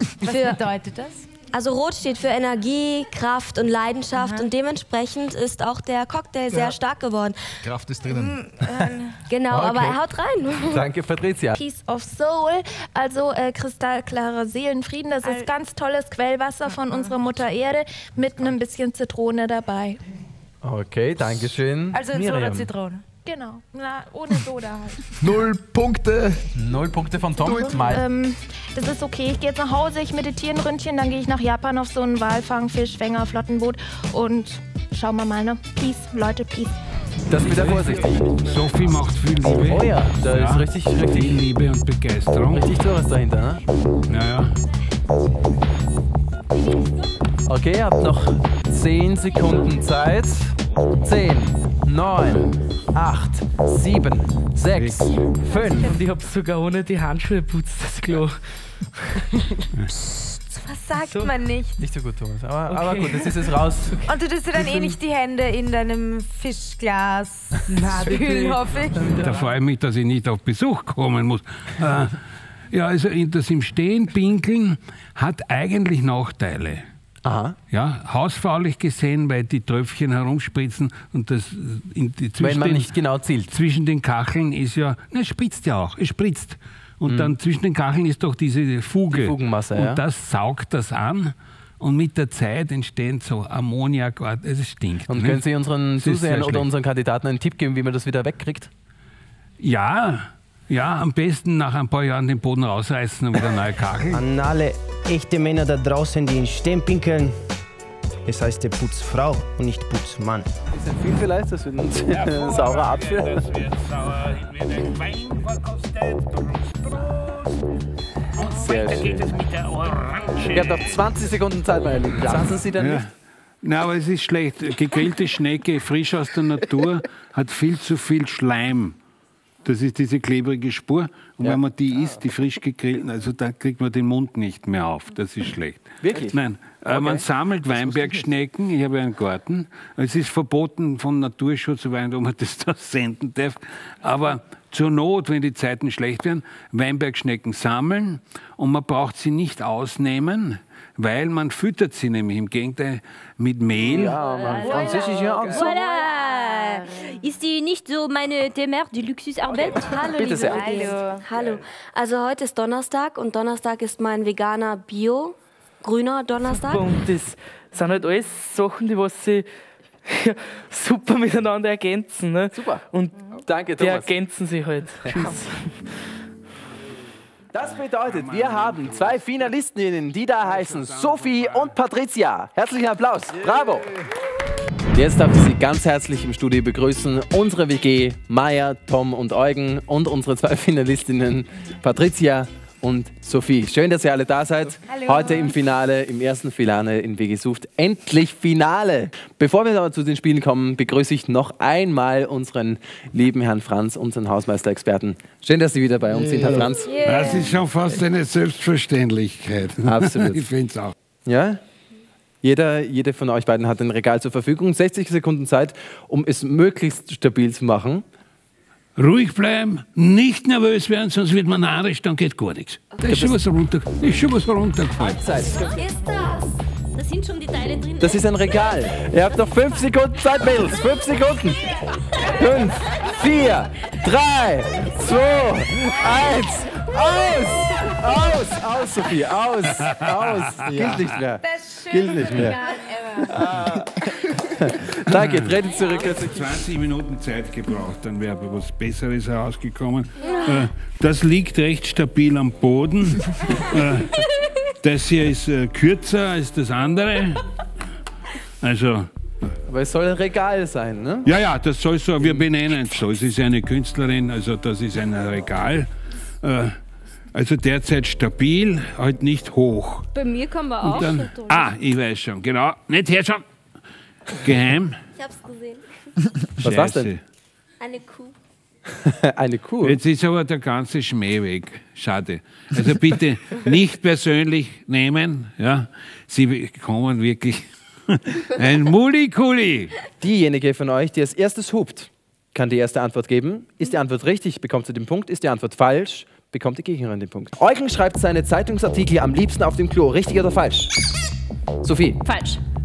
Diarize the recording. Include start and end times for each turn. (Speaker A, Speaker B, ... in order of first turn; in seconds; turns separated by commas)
Speaker A: 0.2-1.3, Speaker B: 1.5-7.6, Speaker A: 4.1-4.5, Speaker C: 6.5-6.7, Speaker C: 7.6-8.4, Speaker A: 8.1-9.2, Speaker D: 8.6-8.9, Speaker B: 9.2-10.8, Speaker D: 9.5-10.0, Speaker D: 10.7-11.6, Speaker E: 11.5-20.0, Speaker A: 15.2-15.5, Speaker A: 16.7-17.1, Speaker D: 20.6-22.7, Speaker A: 21.9-23.0, Speaker E: 23.2-25.1, Speaker C: 25.2-26.4, Speaker D: 26.5-28.0, Speaker E: 27.6-36.8, Speaker D: 37.3-38.3, Speaker F: 37.4-42.7, Speaker D: 39.4-41.4, Speaker D: 42.5-43.6, Speaker F: 44.1-44.5, Speaker D: 47.5-56.0, Speaker F: 54.7-55.3, Speaker G: 55.8-59.2, Speaker A: 60.1-61.8, Speaker G: 61.0-61.4, Speaker D: 61.8-64.0, Speaker G: 62.6-63.7, Speaker A: 64.0-69.1, Speaker G: 67.7-68.8, Speaker D: 68.9-69.5, Speaker F: 69.2-72.1, Speaker F: 72.7-76.8, Speaker D: 77.2-77.6, Speaker F: 77.7-82.9, Speaker D: 82.4-83.5, Speaker F: 83.5-95.4, Speaker D: 87.0-87.4, Speaker D: 89.1-90.0, Speaker D: 95.1-98.7, Speaker F: 96.0-96.7, Speaker F: 99.6-104.2, Speaker H: 104.1-107.3, Speaker H: 108.3-110.5, Speaker D: 110.7-113.4, Speaker F: 112.1-117.6, Speaker F: 118.3-121.0, Speaker D: 118.5-119.3, Speaker D: 120.5-123.0, Speaker F: 122.2-123.1, Speaker F: 123.6-128.9, Speaker F: 129.6-154.2, Speaker D: 136.0-137.2, Speaker D: 153.8-155.9, Speaker I: 154.5-160.2, Speaker B: 156.6-156.8, Speaker B: 159.8-166.9, Speaker D: 159.9-160.7, Speaker A: 160.6-161.2, Speaker G: 160.9-161.1, Speaker G: 166.4-169.5, Speaker G: 170.1-175.9, Speaker D: 172.5-174.2, Speaker D: 177.5-183.9, Speaker F: 177.7-179.3, Speaker F: 180.4-181.7, Speaker D: 184.9-207.0, Speaker F: 206.5-210.9, Speaker D: 209.8-210.5, Speaker D: 211.2-211.6, Speaker D: 212.4-218.0, Speaker F: 218.9-225.2, Speaker D: 223.0-223.4, Speaker D: 225.0-225.7, Speaker I: 225.7-226.4, Speaker I: 226.9-228.5, Speaker D: 228.0-231.6, Speaker D: 232.2-246.5, Speaker F: 240.7-241.0, Speaker F: 245.1-257.4, Speaker F: 258.6-259.1, Speaker D: 259.6-261.3, Speaker F: 261.2-265.9, Speaker F: 266.4-266.7, Speaker F: 267.3-270.1, Speaker I: 270.1-271.6, Speaker F: 270.8-273.4, Speaker F: 274.4-275.0, Speaker B: 275.2-275.8, Speaker D: 276.6-277.1, Speaker F: 276.6-277.2, Speaker B: 277.8-278.3, Speaker D: 278.9-280.0, Speaker F: 279.8-289.9, Speaker D: 290.2-300.9, Speaker D: 301.8-302.2, Speaker I: 302.2-302.6